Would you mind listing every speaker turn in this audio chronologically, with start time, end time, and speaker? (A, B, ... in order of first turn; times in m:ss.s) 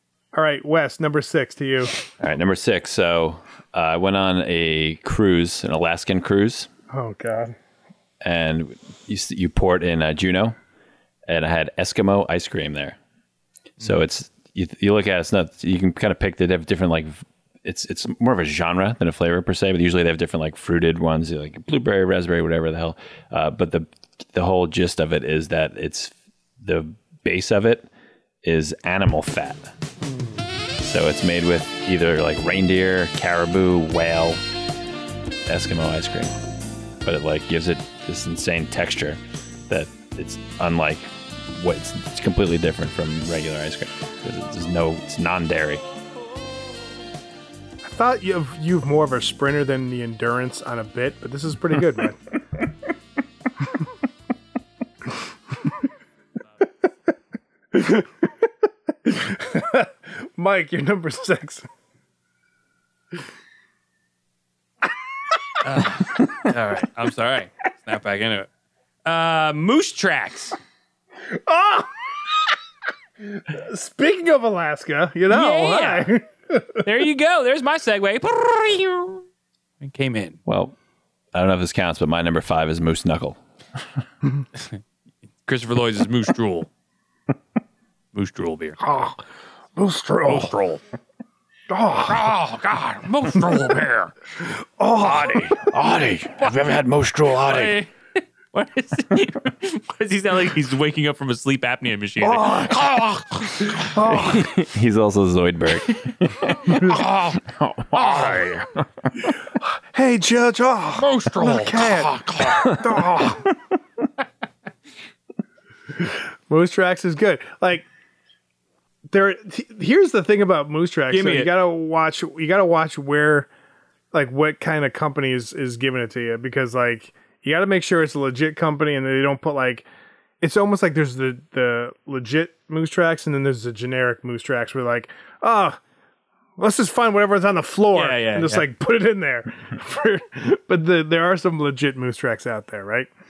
0:00.3-0:02.0 A
0:02.2-0:06.7 B
0:06.9-0:07.5 A
0:08.2-0:10.6 B
0:11.3-0:13.0 B
0:13.8-0:27.9 B
0:28.4-0:29.7 B
0:30.8-0:34.4 B
0:35.5-0:36.4 B
0:37.0-0:45.8 B
0:47.8-0:52.2 A
0:57.7-0:58.5 A
0:59.0-1:01.6 A
1:05.6-1:08.5 C
1:09.0-1:10.6 C
1:11.3-1:11.9 A
1:13.3-1:16.8 A
1:15.3-1:16.1 C
1:16.8-1:19.2 C
1:19.8-1:20.4 C
1:20.4-1:20.7 B
1:21.3-1:23.4 B
1:25.4-1:26.7 C
1:28.1-1:28.8 C
1:28.8-1:29.2 A
1:29.8-1:30.5 A
1:30.2-1:30.8 C
1:31.7-1:32.2 A
1:32.0-1:34.1 C
1:34.4-1:35.6 A
1:35.0-1:35.6 C
1:35.6-1:37.8 B
1:37.3-1:37.9 C
1:38.5-1:43.9 C
1:42.2-1:44.5 A
1:44.0-1:49.1 B
1:46.6-1:47.4 C
1:48.0-1:48.4 C
1:49.9-1:53.5 A
1:51.0-1:52.8 C
1:56.0-1:57.8 A
1:59.1-2:03.5 A
2:01.1-2:01.5 C
2:04.1-2:09.8 A
2:10.4-2:15.8 A
2:16.6-2:23.1 A
2:17.9-2:18.6 C